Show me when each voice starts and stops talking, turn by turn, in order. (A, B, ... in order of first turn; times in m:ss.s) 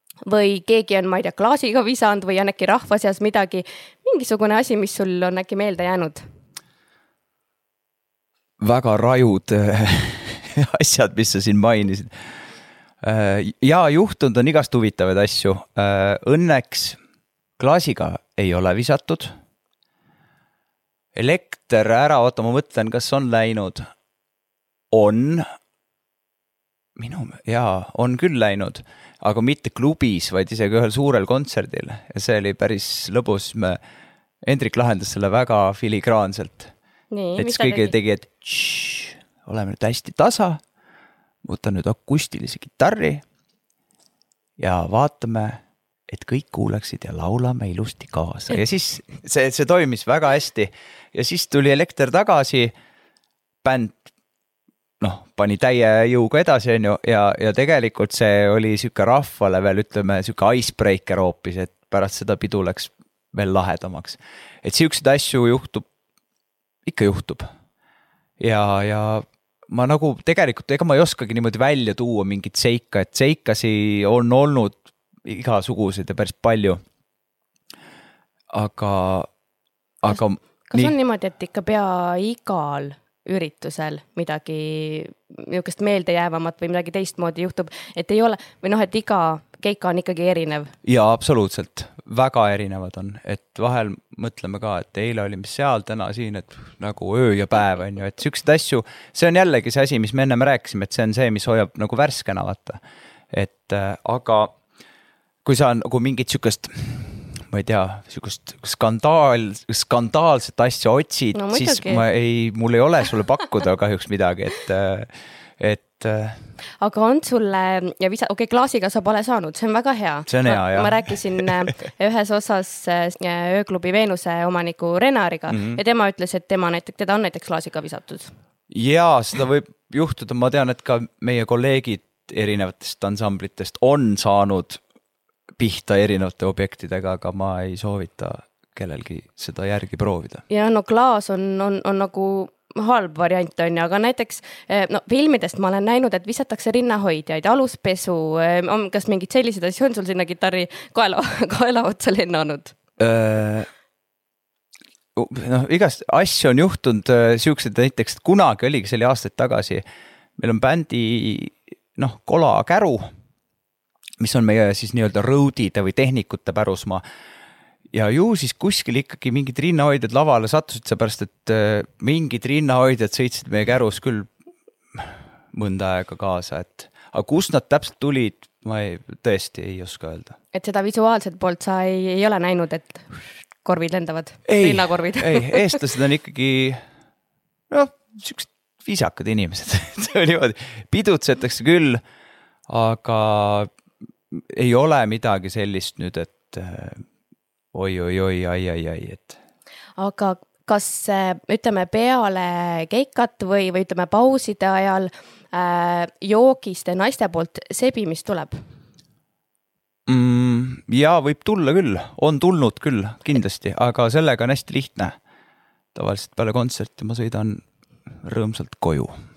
0:00.2-0:06.2 A
0:08.6-0:12.1 B
0:13.0-0:17.0 B
0:17.6-0:19.3 B
0:21.1-0:23.9 B
0:24.9-0:25.5 B
0:27.0-0:33.8 B
0:34.4-0:36.7 B
0:37.1-0:37.9 A
0:37.4-0:40.6 B
0:41.4-0:43.2 B
0:44.6-0:52.7 B
0:53.6-0:54.0 B
0:55.0-1:05.8 B
1:06.8-1:07.5 B
1:08.4-1:16.8 B
1:18.5-1:19.3 B
1:20.0-1:20.9 B
1:20.7-1:30.7 A
1:30.8-1:42.8 B
1:43.3-1:44.5 B
1:45.4-1:56.4 B
1:51.3-1:52.0 A
1:56.8-2:08.3 A
2:00.3-2:01.5 B
2:05.5-2:05.8 B
2:08.7-2:14.8 B
2:15.6-2:20.4 B
2:20.5-2:32.8 A
2:33.0-2:33.7 B
2:35.1-2:39.8 B
2:40.4-2:43.0 B
2:44.2-2:47.0 B
2:47.9-2:54.3 B
2:54.9-3:00.4 B
3:00.5-3:05.8 A
3:04.5-3:06.8 B
3:07.7-3:12.0 B
3:12.7-3:13.7 B
3:14.3-3:17.0 B
3:17.7-3:19.4 B
3:20.0-3:28.6 A
3:30.1-3:35.2 B
3:35.9-3:37.6 B
3:38.1-3:39.1 B